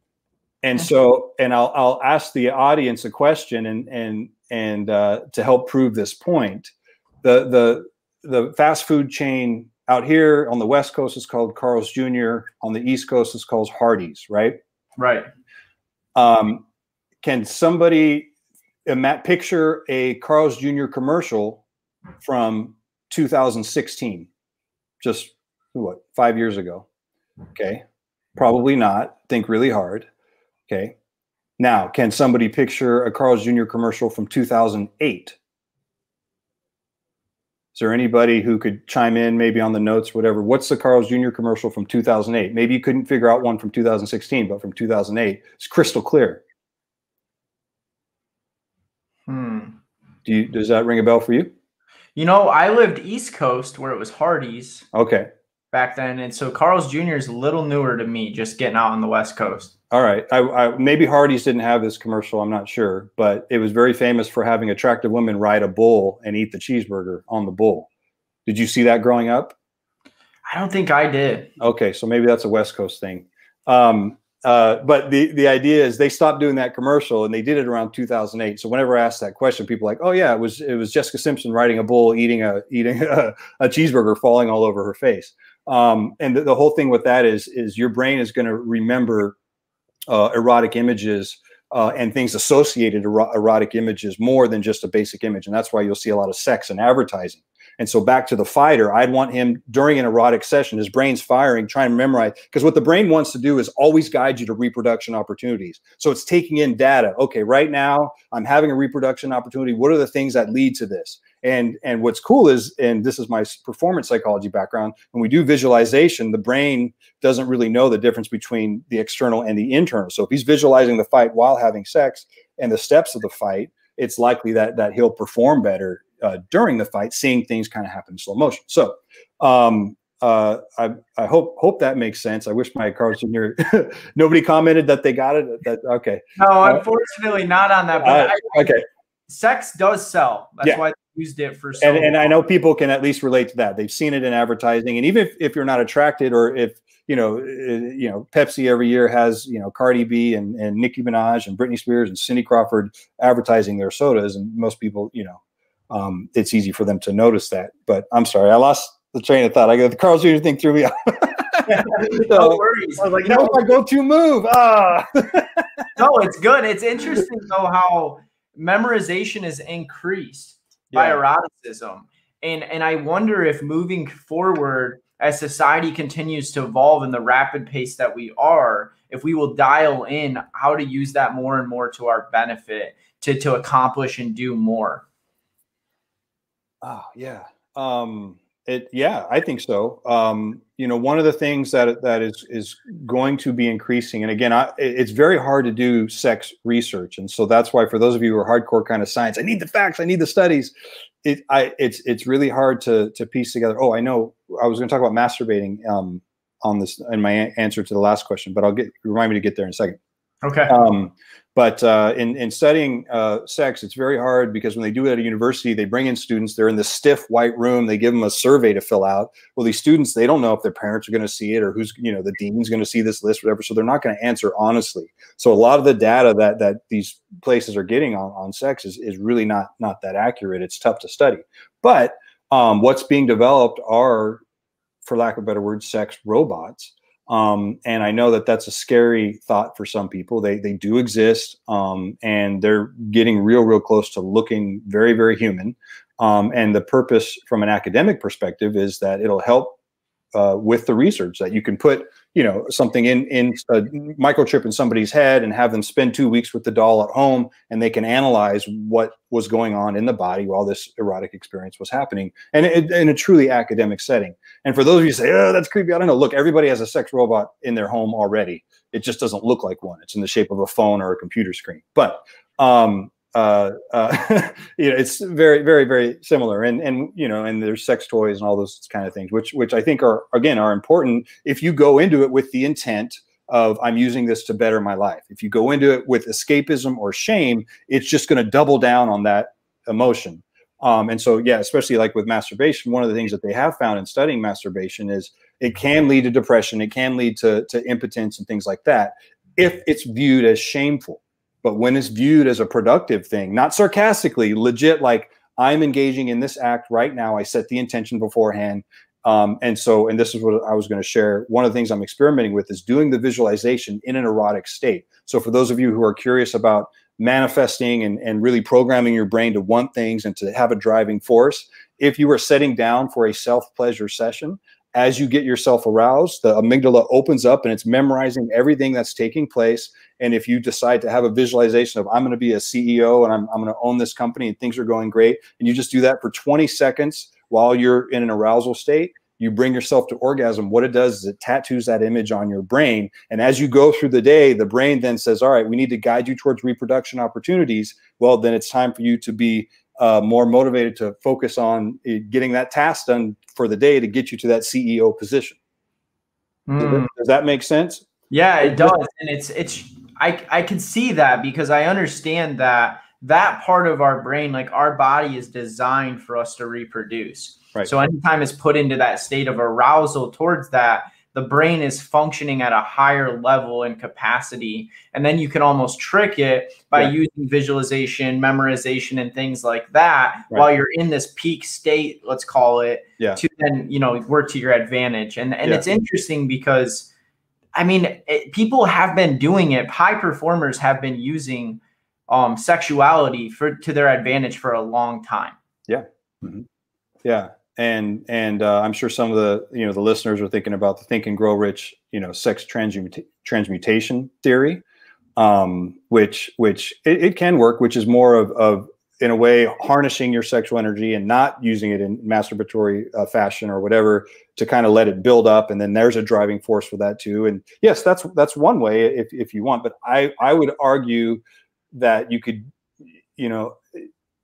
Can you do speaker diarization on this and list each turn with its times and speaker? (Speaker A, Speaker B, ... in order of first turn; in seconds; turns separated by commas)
Speaker A: 0.6-6.7, Speaker A: 7.2-14.6, Speaker B: 15.0-15.3, Speaker A: 16.1-16.6, Speaker A: 17.2-18.3, Speaker A: 18.9-21.6, Speaker A: 22.2-24.3, Speaker A: 25.0-26.9, Speaker A: 27.5-27.8, Speaker A: 28.4-30.1, Speaker A: 30.7-30.9, Speaker A: 31.6-35.4, Speaker A: 37.7-46.4, Speaker B: 49.3-49.8, Speaker A: 50.2-51.5, Speaker B: 52.1-54.9, Speaker A: 54.9-55.3, Speaker B: 55.7-59.7, Speaker A: 59.9-67.9, Speaker A: 68.5-69.5, Speaker B: 70.5-71.5, Speaker A: 71.6-89.3, Speaker A: 90.1-136.8, Speaker B: 136.4-142.3, Speaker A: 138.0-138.8, Speaker A: 141.8-155.4, Speaker A: 155.9-165.9, Speaker B: 161.7-163.6, Speaker B: 165.9-185.0, Speaker A: 170.9-171.2, Speaker A: 186.8-200.7, Speaker A: 201.2-210.0, Speaker B: 210.4-210.8, Speaker A: 210.7-234.4, Speaker A: 235.0-249.8, Speaker A: 250.3-355.6, Speaker B: 356.7-357.1, Speaker A: 356.8-358.1, Speaker B: 358.3-387.1, Speaker A: 358.6-359.0, Speaker B: 387.7-395.6, Speaker A: 395.9-396.6, Speaker A: 397.2-404.8, Speaker A: 405.4-422.7, Speaker A: 423.4-424.0